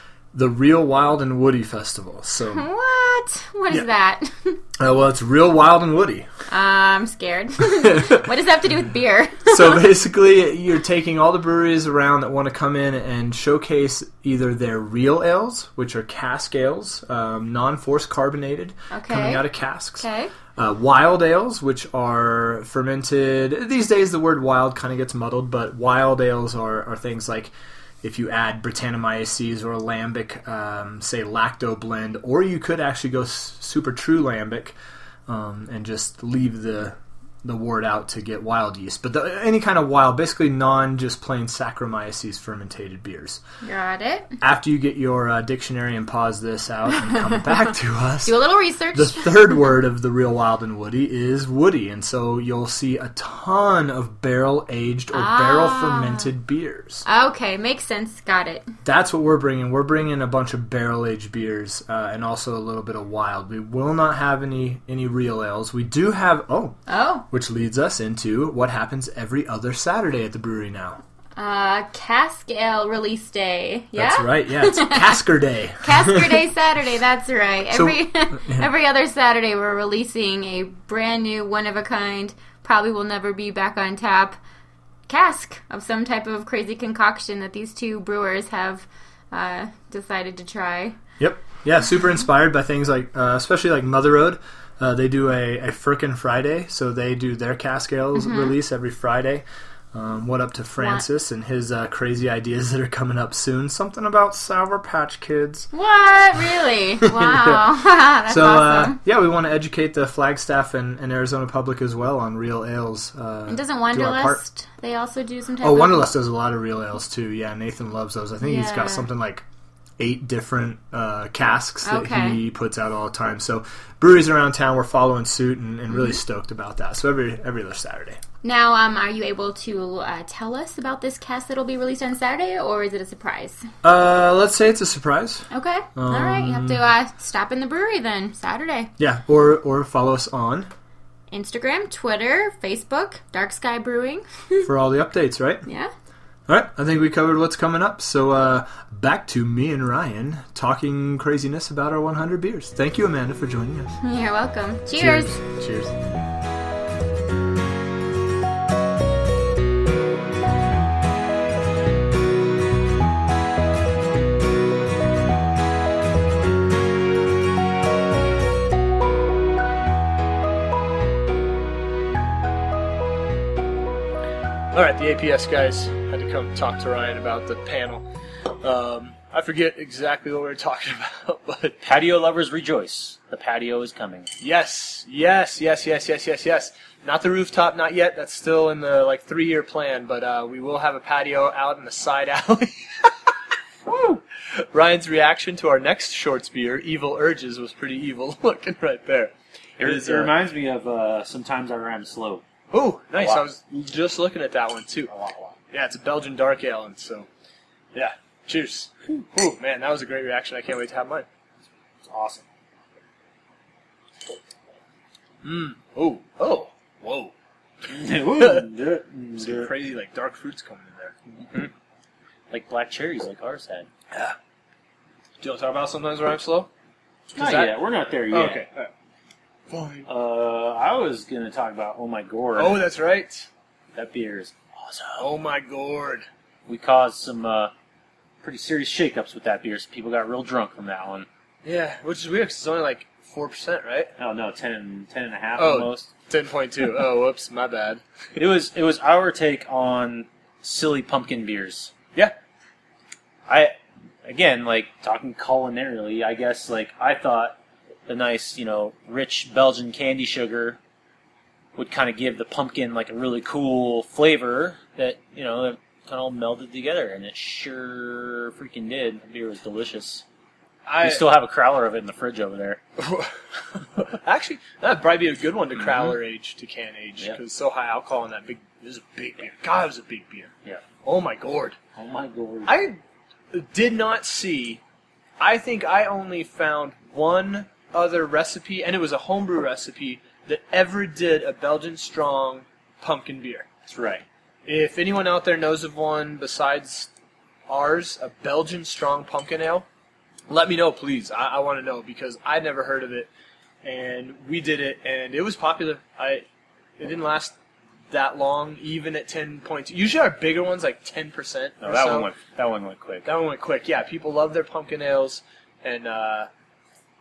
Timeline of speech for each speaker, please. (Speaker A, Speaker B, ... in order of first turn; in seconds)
Speaker A: 0.3-2.7, 4.8-6.3, 7.7-8.3, 9.5-27.5, 28.0-34.8, 35.3-43.4, 44.4-48.4, 48.9-57.1, 58.8-66.8, 67.3-71.0, 74.0-76.5, 77.7-78.7, 91.2-105.7, 107.1-107.7, 108.3-114.4, 115.6-119.5, 120.0-128.2, 133.8-136.8, 139.0-140.7, 144.6-145.7, 146.5-154.0, 154.9-155.9
Speaker B: 2.5-4.6, 6.5-9.8, 18.9-19.4, 20.0-20.3, 43.6-44.4, 48.2-49.6, 55.1-56.3, 57.1-58.7, 66.9-67.2, 71.4-75.2, 75.8-84.4, 85.1-91.0, 98.2-98.6, 100.8-101.0, 105.7-109.0, 113.5-116.1, 118.4-119.1, 121.8-122.4, 125.9-126.2, 128.4-133.7, 135.5-138.9, 141.3-144.7, 145.7-145.9, 154.0-155.3
Speaker C: 174.7-178.1, 178.6-181.8, 184.4-193.1, 194.6-200.3, 202.7-205.1, 205.7-207.3, 207.9-211.3, 215.4-217.3, 218.1-218.7, 219.4-221.2, 225.4-226.7, 227.3-227.8, 228.3-228.9, 229.7-230.1, 232.6-233.5, 235.2-236.3, 241.7-244.1, 245.6-248.0, 270.9-271.2, 273.0-280.5, 281.0-281.8, 282.7-283.0, 283.5-284.8, 285.4-293.7, 294.7-297.1, 297.7-299.9, 300.5-303.3, 303.8-306.5, 307.0-307.6, 308.1-312.3, 313.2-316.5
Speaker D: 181.8-184.3, 193.9-194.2, 199.8-202.4, 203.2-203.4, 205.1-205.6, 212.1-212.4, 217.9-219.7, 221.4-221.7, 222.5-223.9, 227.3-228.6, 230.1-232.8, 233.9-235.2, 236.7-237.7, 238.4-241.3, 244.2-246.1, 248.4-251.9, 253.5-260.8, 261.8-270.2, 271.0-272.8, 275.8-276.2, 282.0-282.8, 293.9-294.2, 311.8-313.3